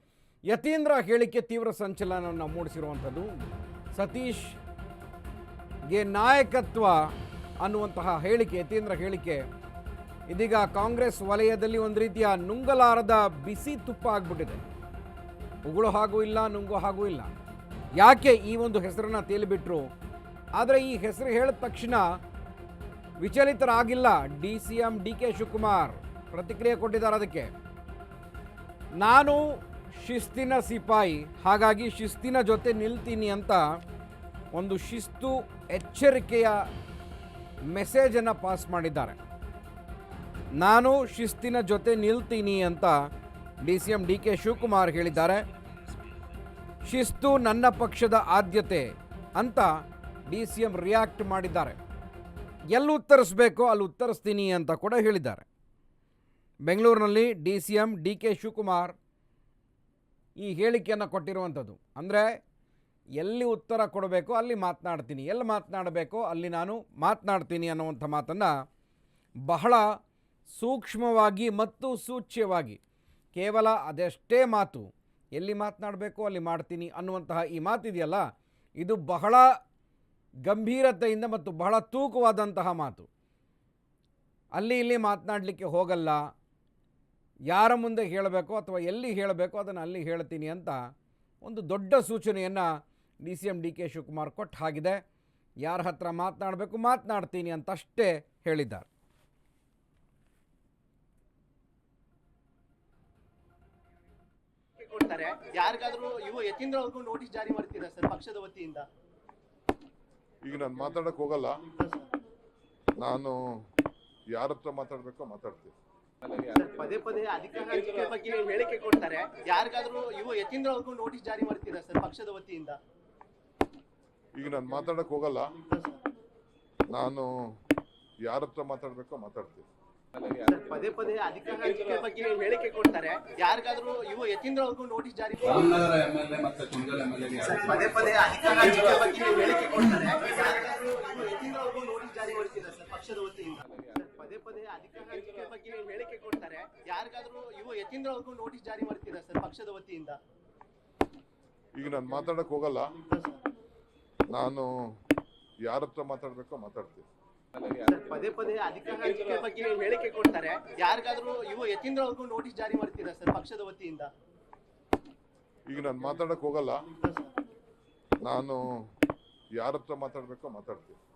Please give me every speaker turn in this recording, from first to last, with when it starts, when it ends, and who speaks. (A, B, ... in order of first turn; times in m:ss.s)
0:00.5-0:03.3 A
0:04.0-0:04.6 A
0:05.9-0:07.1 A
0:07.6-0:09.4 A
0:10.3-0:14.6 A
0:15.6-0:17.3 A
0:18.0-0:19.9 A
0:20.6-0:22.0 A
0:23.2-0:27.5 A
0:29.0-0:29.4 A
0:30.0-0:33.6 A
0:34.5-0:36.6 A
0:37.7-0:39.2 A
0:40.6-0:42.9 A
0:43.6-0:45.4 A
0:46.8-0:49.7 A
0:50.3-0:51.8 A
0:52.7-0:55.4 A
0:56.7-0:59.0 A
1:00.4-1:02.4 A
1:03.2-1:08.5 A
1:09.5-1:09.8 A
1:10.5-1:12.8 A
1:13.3-1:18.2 A
1:18.8-1:19.5 A
1:20.4-1:23.1 A
1:24.6-1:26.2 A
1:27.5-1:30.8 A
1:31.4-1:32.7 A
1:33.2-1:35.0 A
1:35.6-1:38.9 A
1:44.8-1:48.9 B
1:50.4-1:51.6 C
1:53.0-1:53.4 C
1:54.3-1:55.7 C
1:56.4-2:02.8 B
2:04.4-2:05.5 C
2:06.9-2:07.5 C
2:08.2-2:09.7 C
2:10.3-2:15.9 B
2:15.6-2:17.8 D
2:17.4-2:30.2 B
2:31.8-2:32.9 C
2:34.3-2:34.7 C
2:35.6-2:37.1 C
2:37.7-2:44.1 B
2:45.7-2:46.8 C
2:48.2-2:48.8 C
2:49.6-2:51.0 C